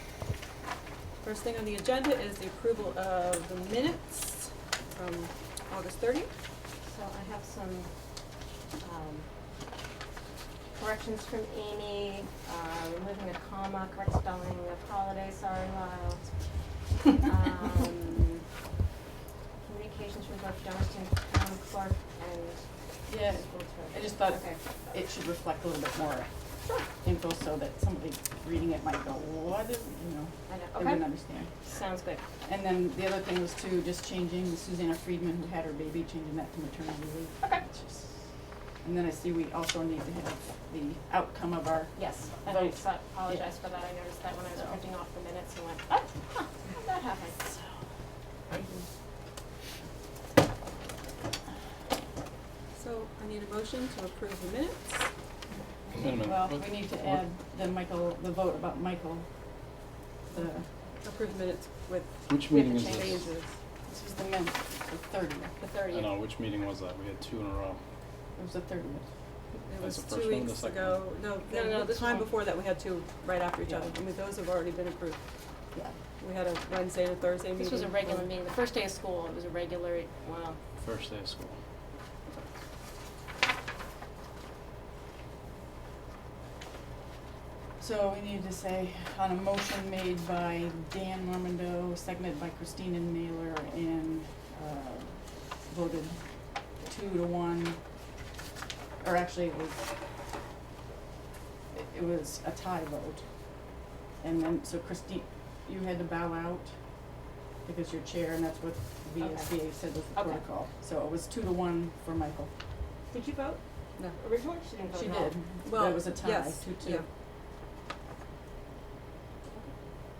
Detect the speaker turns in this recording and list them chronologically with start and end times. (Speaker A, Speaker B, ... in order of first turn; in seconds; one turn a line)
Speaker A: 1.2-6.3
Speaker B: 6.8-7.9
Speaker B: 8.8-9.3
Speaker B: 10.7-16.3
Speaker B: 17.1-18.4
Speaker B: 19.6-22.6
Speaker C: 23.1-26.3
Speaker B: 23.2-24.6
Speaker C: 27.0-31.5
Speaker B: 30.5-31.1
Speaker B: 31.6-32.2
Speaker C: 32.4-38.1
Speaker B: 37.4-37.6
Speaker C: 38.8-43.5
Speaker B: 41.9-47.4
Speaker A: 52.7-55.1
Speaker D: 55.9-57.2
Speaker C: 56.1-59.3
Speaker C: 60.3-60.6
Speaker A: 61.0-63.5
Speaker D: 62.3-63.3
Speaker C: 62.5-63.2
Speaker C: 63.9-65.5
Speaker B: 65.6-66.1
Speaker D: 65.8-67.8
Speaker C: 68.3-69.0
Speaker A: 69.5-75.2
Speaker D: 69.8-71.0
Speaker B: 71.5-72.3
Speaker C: 73.7-74.0
Speaker A: 76.2-78.3
Speaker B: 77.5-80.6
Speaker D: 80.8-81.5
Speaker C: 87.8-96.2
Speaker C: 96.8-97.8
Speaker C: 99.0-99.9
Speaker C: 101.7-103.2
Speaker C: 104.2-106.7
Speaker C: 107.6-112.5
Speaker B: 109.2-109.5
Speaker B: 110.1-110.4
Speaker B: 113.1-113.6
Speaker B: 114.2-115.4
Speaker C: 114.9-117.0
Speaker A: 115.6-117.0